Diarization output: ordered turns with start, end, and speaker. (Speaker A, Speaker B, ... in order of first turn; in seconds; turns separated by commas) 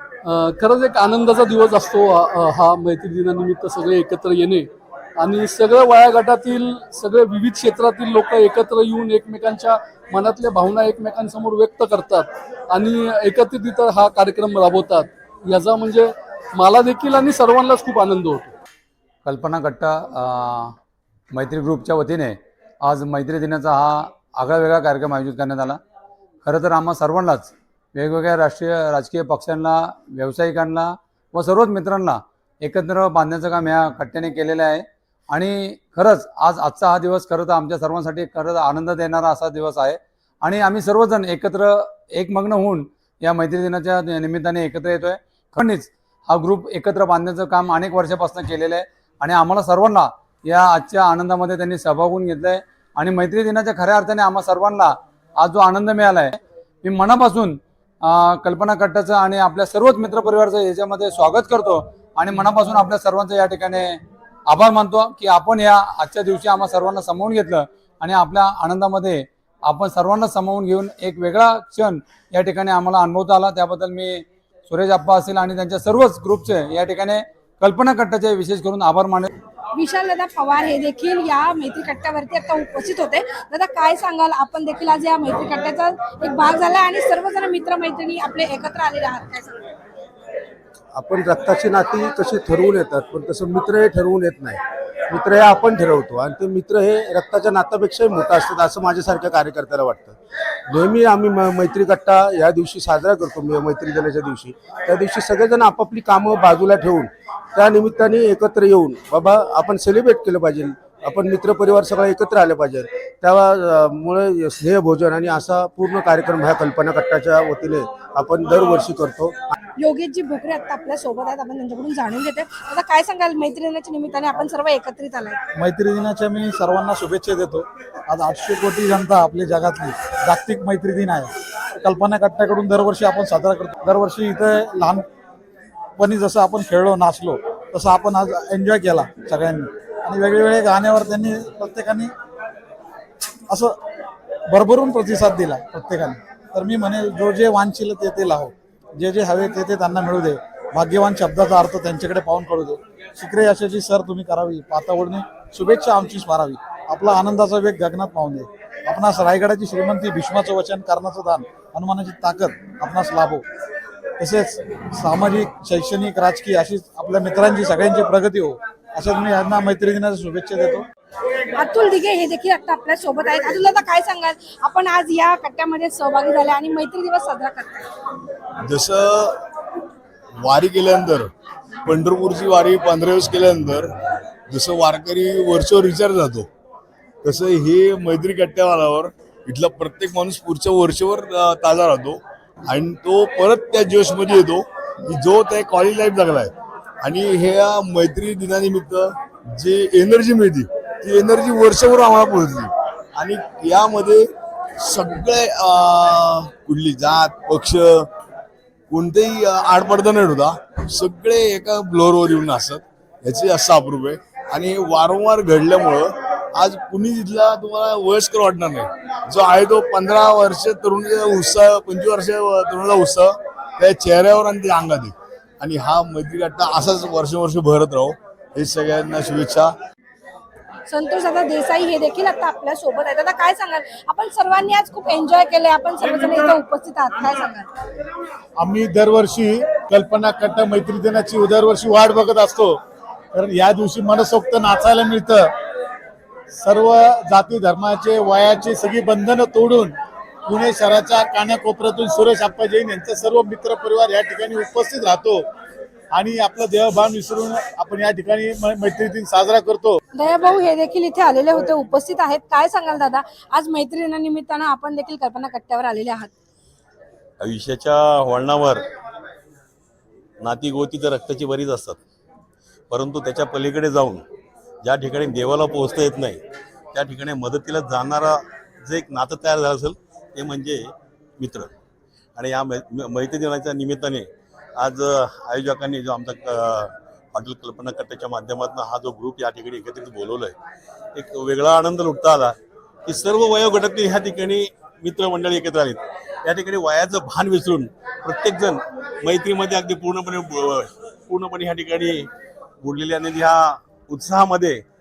Speaker A: 0.2-18.5, Speaker B: 19.2-20.7, Speaker B: 21.3-25.8, Speaker B: 26.4-79.3, Speaker C: 79.7-89.7, Speaker D: 90.9-119.5, Speaker C: 119.8-125.4, Speaker E: 125.6-135.0, Speaker E: 136.0-142.1, Speaker E: 143.5-143.8, Speaker E: 144.5-163.4, Speaker E: 164.2-170.9, Speaker C: 171.6-177.9, Speaker F: 178.6-179.4, Speaker F: 180.4-181.3, Speaker F: 181.9-183.9, Speaker F: 184.5-186.5, Speaker F: 187.2-204.3, Speaker F: 204.8-208.1, Speaker F: 208.9-229.7, Speaker C: 230.9-237.7, Speaker G: 238.6-242.7, Speaker G: 243.3-245.4, Speaker G: 246.6-249.9, Speaker G: 250.5-255.4, Speaker G: 256.1-260.0, Speaker C: 260.1-266.3, Speaker H: 267.4-268.8, Speaker H: 270.4-272.0, Speaker H: 272.9-274.2, Speaker H: 274.8-276.4, Speaker H: 276.9-281.7, Speaker H: 282.4-284.3, Speaker H: 284.8-290.6, Speaker H: 291.1-302.3, Speaker H: 302.8-304.8